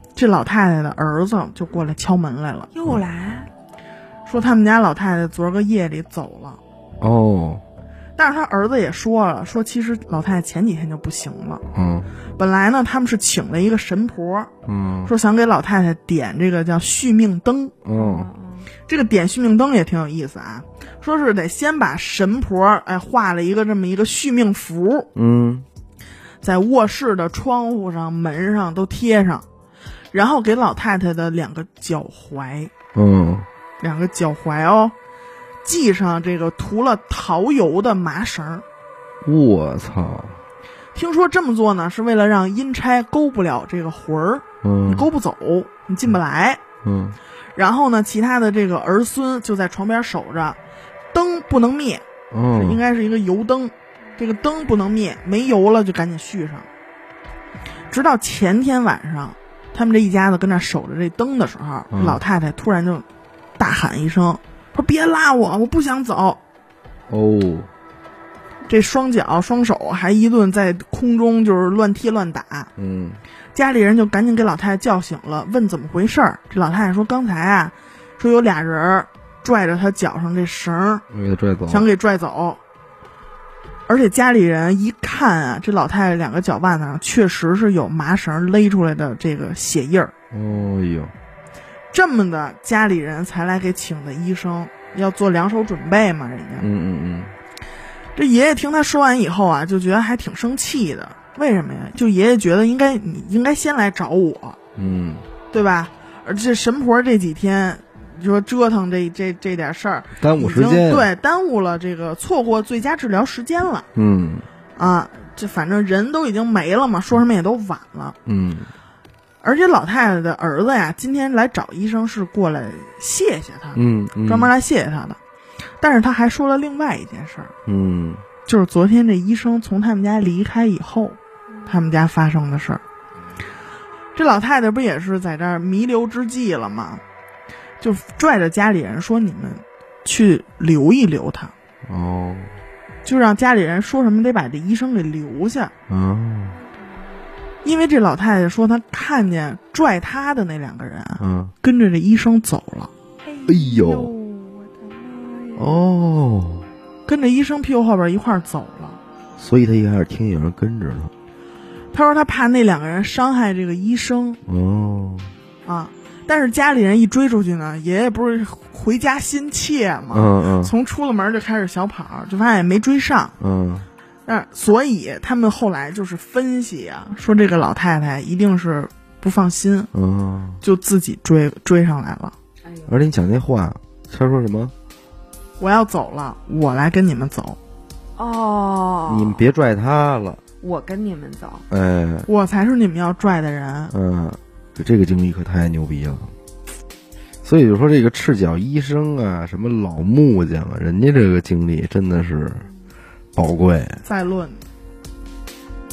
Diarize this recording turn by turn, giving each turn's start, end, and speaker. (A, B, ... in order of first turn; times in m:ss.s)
0:00.2-0:02.7 A
0:02.7-0:03.5 B
0:04.2-0:06.6 A
0:07.0-0:07.6 C
0:08.2-0:11.6 A
0:11.7-0:12.1 C
0:12.4-0:14.5 A
0:14.6-0:15.1 C
0:15.0-0:17.7 A
0:17.8-0:18.3 C
0:17.9-0:18.7 B
0:18.9-0:25.1 A
0:25.2-0:25.6 C
0:26.4-0:29.4 A
0:30.1-0:32.7 A
0:32.9-0:33.5 C
0:33.8-0:34.9 A
0:35.6-0:38.6 A
0:39.2-0:40.4 C
0:40.9-0:46.6 A
0:44.6-0:45.1 C
0:46.8-0:47.2 C
0:47.5-0:50.6 A
0:51.1-0:56.7 A
0:52.3-0:52.8 C
0:57.9-1:03.0 A
1:01.9-1:02.2 C
1:03.6-1:06.4 A
1:07.1-1:07.7 C
1:08.7-1:12.7 A
1:12.8-1:13.2 C
1:13.5-1:21.0 A
1:21.1-1:21.9 C
1:21.7-1:22.6 A
1:23.9-1:30.1 A
1:30.3-1:31.1 C
1:31.9-1:36.7 A
1:36.6-1:37.3 C
1:38.1-1:44.6 A
1:44.8-1:45.3 C
1:45.5-1:53.9 A
1:50.2-1:51.1 C
1:53.9-1:54.5 C
1:54.8-1:58.2 A
1:58.2-1:58.7 C
1:59.4-2:05.2 A
2:03.7-2:04.5 C
2:05.8-2:07.5 A
2:07.6-2:08.2 C
2:08.4-2:12.8 A
2:14.1-2:17.0 A
2:17.8-2:21.5 A
2:21.8-2:22.6 C
2:23.0-2:25.7 A
2:25.9-2:26.6 C
2:27.6-2:32.9 A
2:31.2-2:31.5 C
2:33.2-2:35.8 B
2:33.5-2:34.1 C
2:35.6-2:36.7 C
2:37.0-2:39.0 A
2:39.4-2:41.1 C
2:41.9-2:44.4 A
2:44.5-2:45.3 C
2:45.6-2:53.3 A
2:50.1-2:50.7 C
2:53.4-2:53.9 C
2:54.2-2:59.9 A
2:59.9-3:00.6 C
3:00.6-3:02.3 A
3:02.9-3:04.7 C
3:05.6-3:07.6 A
3:08.2-3:09.4 B
3:09.0-3:10.4 C
3:10.6-3:11.6 B
3:11.7-3:12.3 C
3:12.3-3:13.9 A
3:13.9-3:16.3 C
3:17.4-3:22.7 C
3:23.4-3:24.0 C
3:24.0-3:24.6 A